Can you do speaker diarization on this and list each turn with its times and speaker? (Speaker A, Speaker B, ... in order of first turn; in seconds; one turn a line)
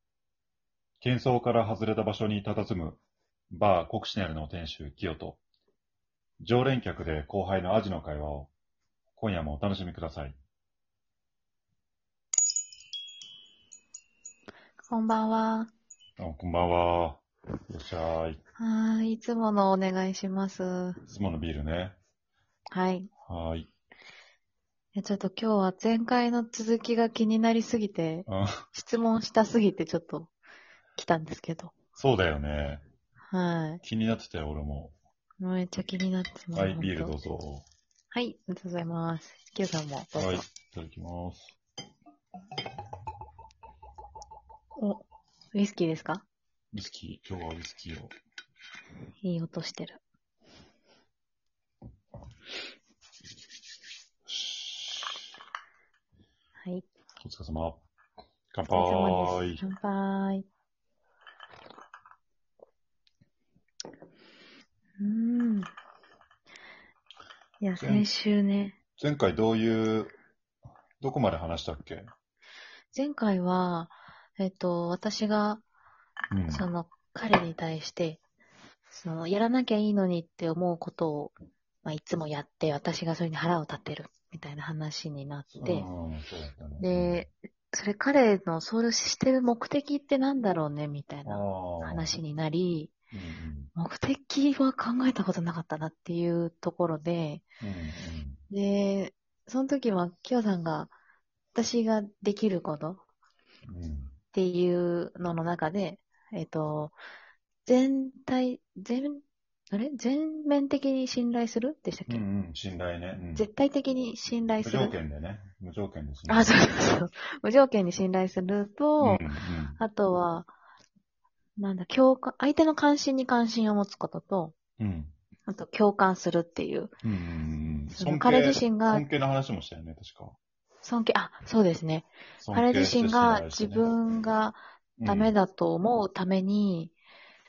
Speaker A: 1.0-5.4
Speaker A: 6.4-8.5
Speaker A: 9.2-10.3
Speaker B: 14.9-15.7
Speaker A: 16.2-18.4
Speaker B: 18.6-21.0
Speaker A: 21.1-22.0
Speaker B: 22.7-23.1
Speaker A: 23.2-23.7
Speaker B: 24.9-30.3
Speaker A: 28.3-28.7
Speaker B: 31.0-31.7
Speaker A: 32.0-32.8
Speaker B: 33.3-33.8
Speaker A: 33.8-35.0
Speaker B: 35.4-37.2
Speaker A: 36.5-37.6
Speaker B: 38.1-40.4
Speaker A: 40.1-41.5
Speaker B: 44.8-45.0
Speaker B: 45.5-46.2
Speaker A: 46.7-48.1
Speaker B: 49.2-50.0
Speaker A: 54.3-55.2
Speaker B: 56.6-56.9
Speaker A: 57.2-57.8
Speaker A: 58.5-59.6
Speaker B: 58.7-60.5
Speaker B: 65.0-65.7
Speaker B: 67.6-68.8
Speaker A: 67.8-68.1
Speaker A: 69.0-70.1
Speaker A: 71.0-72.1
Speaker B: 72.9-75.6
Speaker A: 76.3-76.7
Speaker B: 76.5-78.2
Speaker B: 78.9-81.3
Speaker B: 81.8-85.9
Speaker A: 85.5-87.2
Speaker B: 86.8-92.9
Speaker A: 91.2-92.2
Speaker A: 93.1-93.7
Speaker B: 93.8-97.4
Speaker A: 97.6-98.4
Speaker B: 98.5-100.9
Speaker B: 101.5-103.0
Speaker A: 103.7-104.1
Speaker B: 104.3-107.0
Speaker B: 107.7-112.2
Speaker A: 112.1-113.5
Speaker B: 113.3-115.0
Speaker A: 114.6-116.6
Speaker B: 116.3-119.3
Speaker A: 119.0-119.8
Speaker B: 119.8-120.5
Speaker B: 121.6-124.5
Speaker A: 124.8-125.1
Speaker B: 125.5-126.9
Speaker A: 127.0-130.4
Speaker B: 127.9-129.0
Speaker B: 130.8-136.9
Speaker A: 132.4-133.9
Speaker A: 135.0-135.3